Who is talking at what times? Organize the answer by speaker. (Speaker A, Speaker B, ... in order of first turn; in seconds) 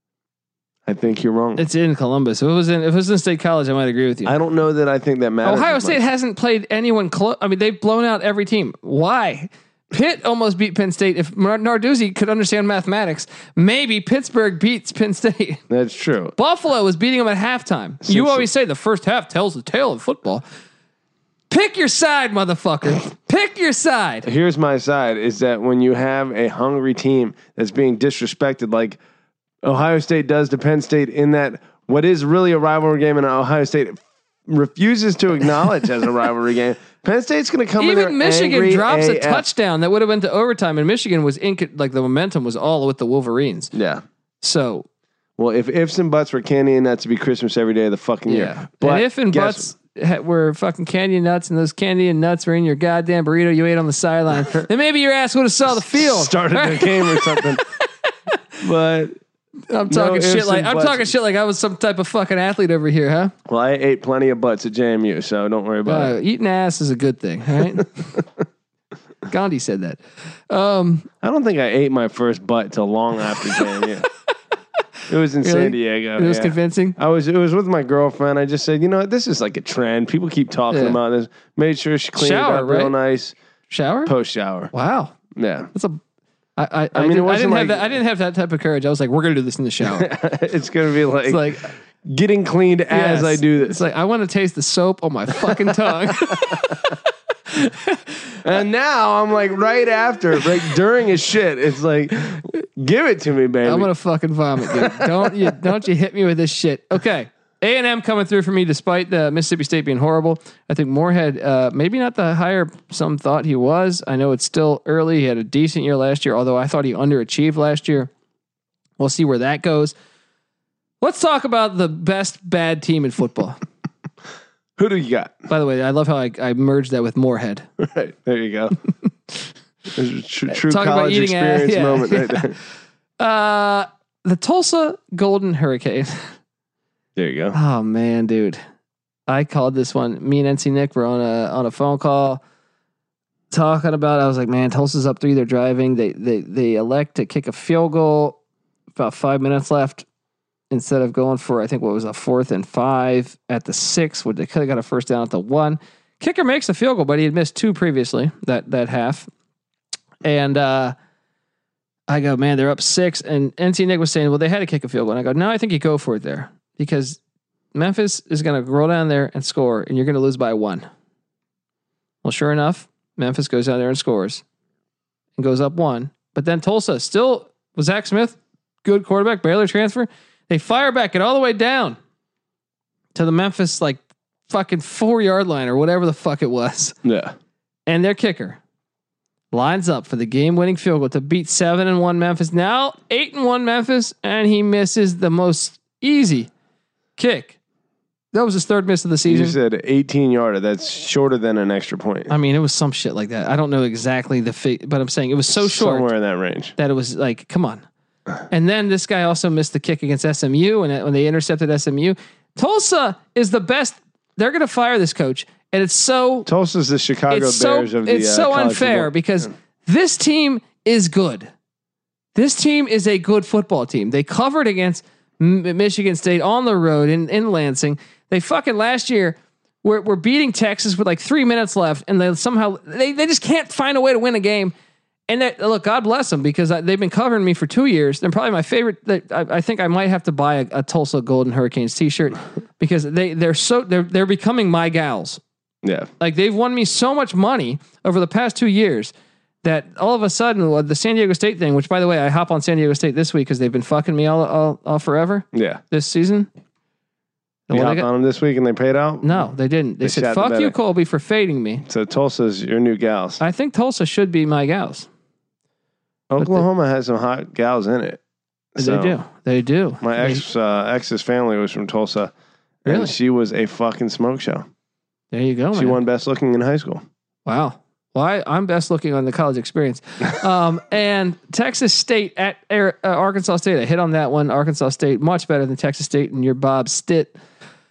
Speaker A: 0.9-1.6, 4.2-6.0, 15.7-16.3, 18.0-18.5, 24.2-29.0, 29.6-39.5, 43.7-44.0, 45.4-49.7, 55.8-57.6, 58.6-59.2, 59.9-61.1, 63.5-66.1, 71.2-74.1, 75.1-83.3, 84.1-84.7, 85.3-85.7, 86.9-87.8, 89.8-93.8, 95.4-97.0, 98.4-103.9, 104.6-105.6, 124.8-125.5, 127.8-128.8, 129.9-132.6, 137.2-137.6, 187.1-187.3, 199.3-202.3, 205.5-206.7, 216.5-219.1, 245.8-246.1, 255.5-255.8, 257.7-259.5, 260.0-260.8, 261.9-263.4, 266.3-268.2, 268.8-269.2, 270.0-272.3, 272.9-274.7, 275.7-277.0
Speaker B: 1.6-4.3, 5.4-15.6, 16.4-20.4, 21.5-24.3, 37.8-43.7, 44.4-44.9, 48.3-58.1, 59.7-63.3, 65.9-68.2, 69.3-71.1, 75.4-77.0, 80.7-81.0, 82.2-82.9, 83.7-84.1, 84.7-85.2, 85.7-86.0, 86.6-90.1, 91.3-91.7, 92.9-97.0, 97.5-98.4, 103.7-118.1, 119.0-119.9, 121.0-123.6, 125.5-127.7, 130.5-132.5, 133.2-136.3, 137.5-138.6, 139.3-142.4, 143.5-148.4, 149.0-150.1, 150.7-159.3, 160.2-160.9, 162.1-167.2, 167.7-170.9, 172.2-174.4, 175.4-182.0, 183.2-187.0, 187.9-188.6, 189.5-196.5, 197.2-197.6, 198.3-199.6, 202.3-206.1, 206.8-207.8, 208.5-216.5, 217.3-221.5, 222.3-234.7, 235.3-245.4, 246.2-249.1, 249.6-256.5, 257.7-258.1, 259.2-261.8, 263.4-265.1, 266.4-266.6, 268.8-270.4, 272.9-273.1, 275.3-276.0, 277.5-287.4